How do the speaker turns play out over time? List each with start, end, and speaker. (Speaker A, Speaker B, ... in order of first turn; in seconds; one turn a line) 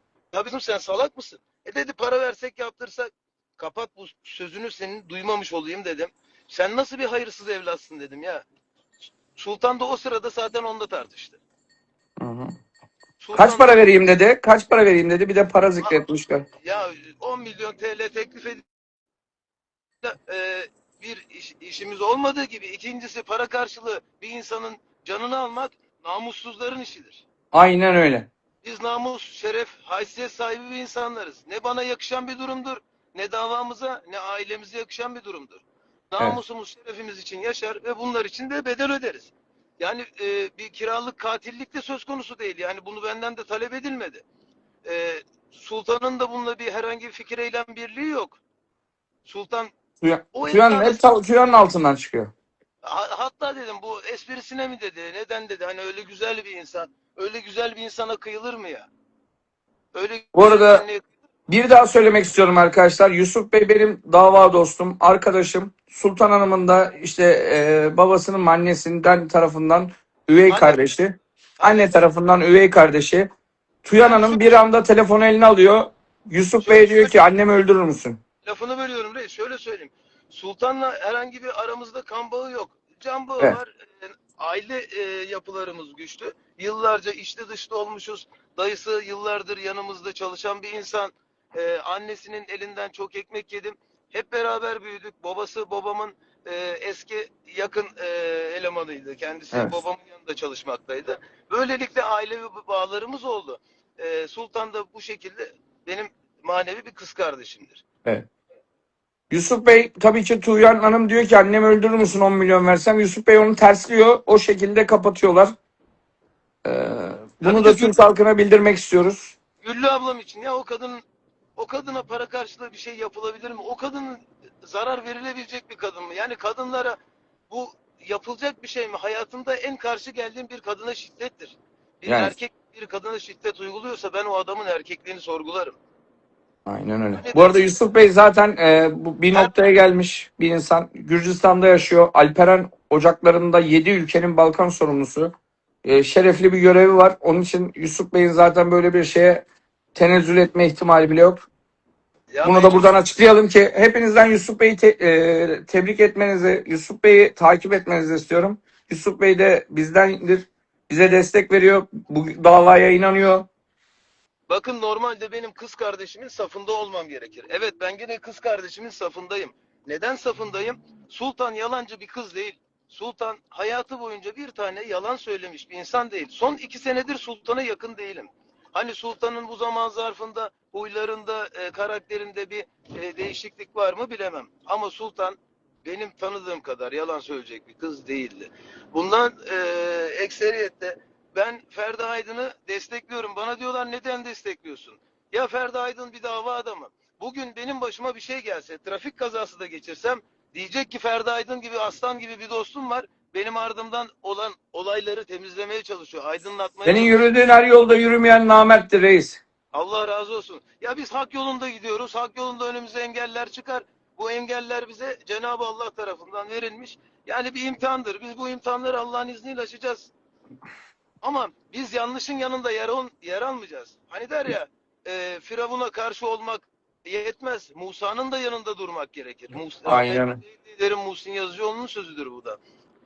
Speaker A: 0.3-8.4
Speaker A: 9.3-11.4
Speaker B: 12.2-12.5
Speaker A: 13.2-13.9
Speaker B: 13.3-16.4
Speaker A: 16.6-18.6
Speaker A: 20.0-27.2
Speaker B: 27.5-28.3
Speaker A: 28.6-44.2
Speaker A: 44.8-48.4
Speaker A: 49.2-49.7
Speaker B: 50.0-52.3
Speaker A: 50.3-51.0
Speaker A: 52.8-58.9
Speaker A: 59.9-61.0
Speaker B: 60.3-60.8
Speaker B: 61.5-73.3
Speaker A: 70.5-70.8
Speaker A: 71.6-72.1
Speaker B: 73.8-78.2
Speaker A: 74.0-74.6
Speaker A: 76.6-77.2
Speaker A: 78.4-107.8
Speaker B: 109.3-115.5
Speaker B: 116.6-119.3
Speaker A: 117.4-118.0
Speaker A: 119.6-121.0
Speaker A: 121.6-127.0
Speaker A: 127.5-135.8
Speaker B: 132.1-132.3
Speaker B: 136.7-145.3
Speaker A: 137.2-137.7
Speaker B: 145.8-151.5
Speaker A: 152.3-153.0
Speaker B: 152.4-163.5
Speaker A: 164.5-207.3
Speaker B: 206.8-209.4
Speaker A: 209.7-220.1
Speaker A: 221.2-232.6
Speaker B: 229.8-230.4